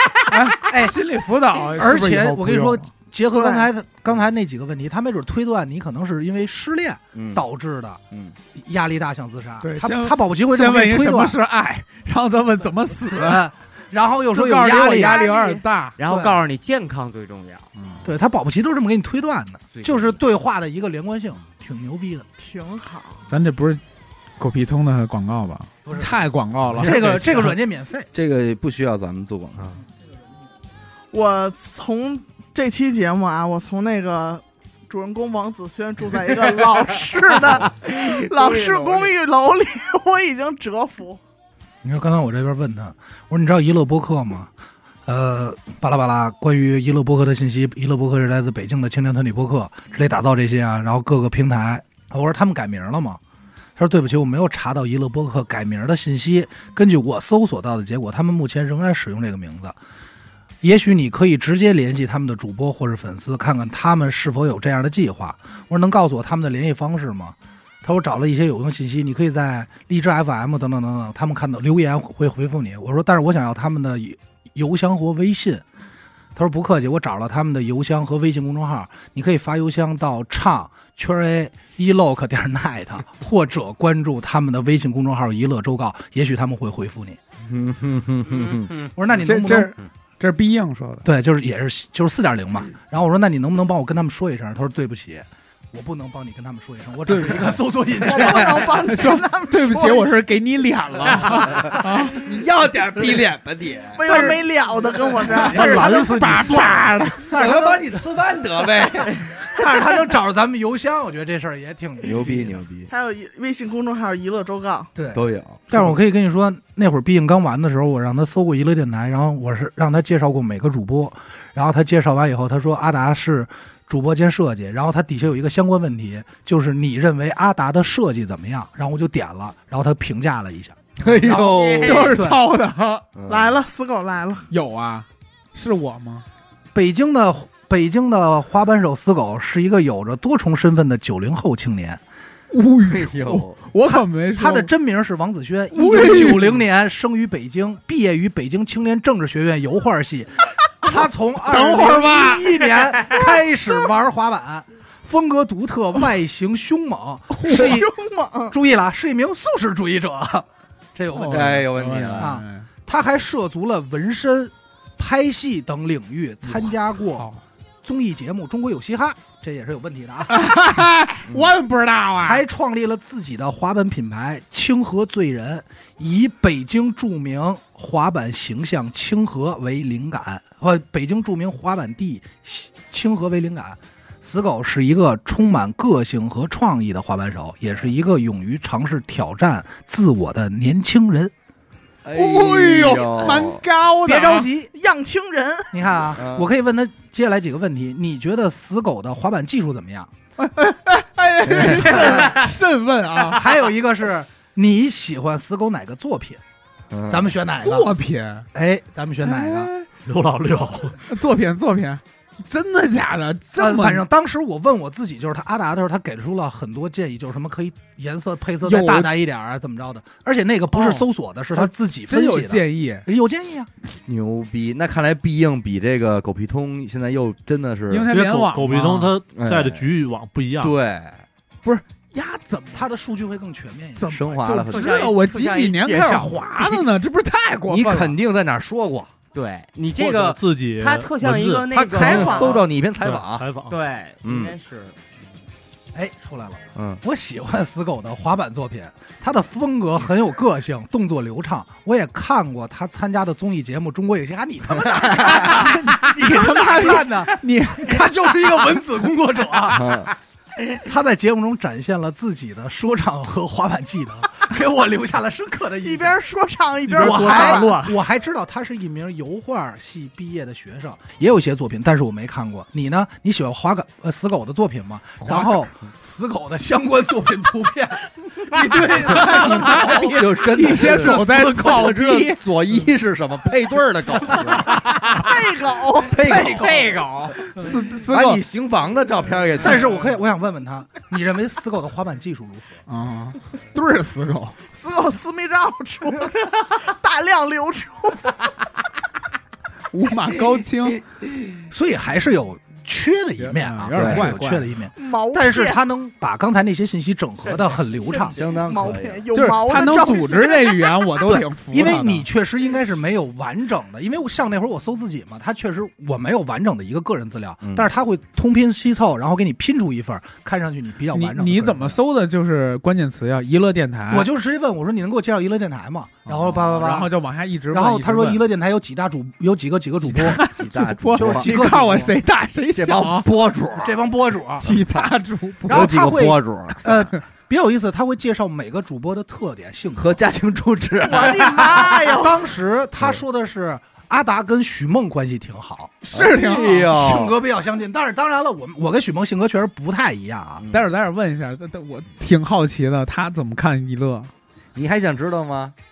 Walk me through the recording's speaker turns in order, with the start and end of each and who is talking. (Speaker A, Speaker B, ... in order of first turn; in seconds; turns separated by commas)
Speaker A: 0.3-2.9, Speaker B: 0.7-1.0, Speaker B: 1.8-8.0, Speaker C: 3.4-3.7, Speaker D: 7.1-7.4, Speaker B: 8.5-11.4, Speaker A: 9.6-13.4, Speaker B: 13.0-15.2, Speaker A: 14.3-16.0, Speaker C: 15.0-15.6, Speaker E: 16.0-17.7, Speaker B: 16.0-16.4, Speaker B: 18.0-22.3, Speaker E: 19.7-20.2, Speaker C: 22.4-23.2, Speaker A: 23.3-23.8, Speaker A: 24.4-27.5, Speaker B: 25.9-26.1, Speaker B: 26.8-28.1, Speaker D: 26.8-27.2, Speaker D: 28.1-29.7, Speaker C: 31.1-41.2, Speaker E: 37.8-39.1, Speaker B: 41.8-44.5, Speaker B: 45.1-53.2, Speaker B: 53.8-59.8, Speaker B: 60.6-75.7, Speaker B: 76.3-87.2, Speaker D: 87.4-88.7, Speaker B: 89.0-89.7, Speaker A: 89.2-91.1, Speaker B: 91.0-98.7, Speaker A: 97.1-97.6, Speaker C: 98.0-100.1, Speaker D: 98.2-98.7, Speaker A: 98.8-102.2, Speaker D: 101.5-104.4, Speaker C: 104.0-106.1, Speaker B: 104.1-104.4, Speaker A: 105.3-107.3, Speaker B: 105.5-106.1, Speaker F: 105.5-106.9, Speaker B: 107.3-108.0, Speaker D: 107.3-109.2, Speaker B: 109.4-112.6, Speaker D: 112.0-112.9, Speaker C: 112.9-114.9, Speaker B: 115.0-132.4, Speaker D: 115.1-115.8, Speaker D: 131.0-132.3, Speaker E: 131.3-132.1, Speaker A: 131.8-133.1, Speaker D: 133.2-133.6, Speaker C: 133.3-134.5, Speaker A: 134.5-136.2, Speaker B: 136.7-142.0, Speaker A: 142.5-144.7, Speaker D: 142.9-143.6, Speaker B: 143.9-157.9, Speaker A: 145.7-146.6, Speaker A: 151.5-152.6, Speaker C: 153.1-153.8, Speaker A: 157.3-157.8, Speaker C: 157.5-158.6, Speaker B: 158.5-167.3, Speaker A: 161.1-162.7, Speaker D: 161.3-162.3, Speaker A: 166.5-167.4, Speaker B: 167.8-170.6, Speaker A: 170.3-172.4, Speaker B: 172.2-191.3, Speaker D: 192.0-193.6, Speaker A: 192.1-194.5, Speaker B: 194.0-194.7, Speaker C: 194.7-195.7, Speaker B: 195.7-200.1, Speaker D: 196.2-196.5, Speaker A: 200.4-203.6, Speaker D: 201.5-202.2, Speaker B: 201.8-202.4, Speaker B: 203.2-206.4, Speaker D: 206.9-207.3, Speaker B: 207.1-207.9, Speaker A: 207.6-208.5, Speaker B: 208.5-209.7, Speaker A: 209.2-209.9, Speaker F: 210.1-211.0, Speaker A: 211.1-214.1, Speaker B: 213.6-223.7, Speaker A: 218.6-219.1, Speaker A: 220.7-223.1, Speaker D: 224.1-228.1, Speaker A: 227.9-229.1, Speaker F: 228.1-230.7, Speaker D: 229.3-229.9, Speaker D: 230.6-231.2, Speaker A: 231.6-232.9, Speaker B: 232.7-234.2, Speaker A: 234.0-238.2, Speaker D: 234.1-235.1, Speaker E: 234.7-236.5, Speaker D: 237.7-239.1, Speaker E: 239.3-242.7, Speaker F: 239.9-243.8, Speaker D: 241.7-243.5, Speaker E: 243.7-245.0, Speaker D: 244.2-244.6, Speaker B: 245.9-260.1, Speaker D: 246.8-247.0, Speaker D: 254.8-255.7, Speaker A: 255.2-258.6, Speaker D: 259.7-260.1, Speaker B: 260.7-266.2, Speaker C: 265.8-267.8, Speaker F: 266.9-268.0, Speaker B: 266.9-281.3, Speaker D: 275.2-275.7, Speaker A: 279.0-282.4, Speaker D: 279.3-284.8, Speaker C: 285.1-286.7, Speaker D: 286.1-287.0, Speaker E: 286.3-287.4, Speaker B: 286.3-286.9, Speaker A: 287.6-288.4, Speaker D: 288.1-289.9, Speaker B: 289.6-292.8, Speaker A: 292.9-294.6, Speaker C: 294.7-298.5, Speaker A: 299.9-301.0, Speaker B: 301.7-308.4, Speaker A: 303.4-304.7, Speaker D: 303.9-304.3, Speaker C: 305.0-305.8, Speaker C: 308.1-311.1, Speaker D: 308.4-309.2, Speaker A: 309.3-312.3, Speaker B: 311.4-322.0, Speaker A: 321.1-324.3, Speaker B: 324.1-327.1, Speaker A: 326.3-328.4, Speaker B: 327.7-330.5, Speaker A: 330.0-333.3, Speaker D: 330.3-331.5, Speaker B: 331.1-332.1, Speaker D: 332.8-334.0, Speaker B: 333.8-334.7, Speaker A: 334.6-336.1, Speaker D: 334.6-335.1, Speaker B: 335.7-340.2, Speaker D: 335.7-336.9, Speaker D: 340.0-341.9, Speaker C: 341.0-342.6, Speaker B: 342.1-346.0, Speaker A: 346.0-346.9, Speaker D: 346.1-347.4, Speaker B: 346.8-350.6, Speaker D: 350.6-350.9, Speaker A: 350.7-354.3, Speaker D: 354.8-355.8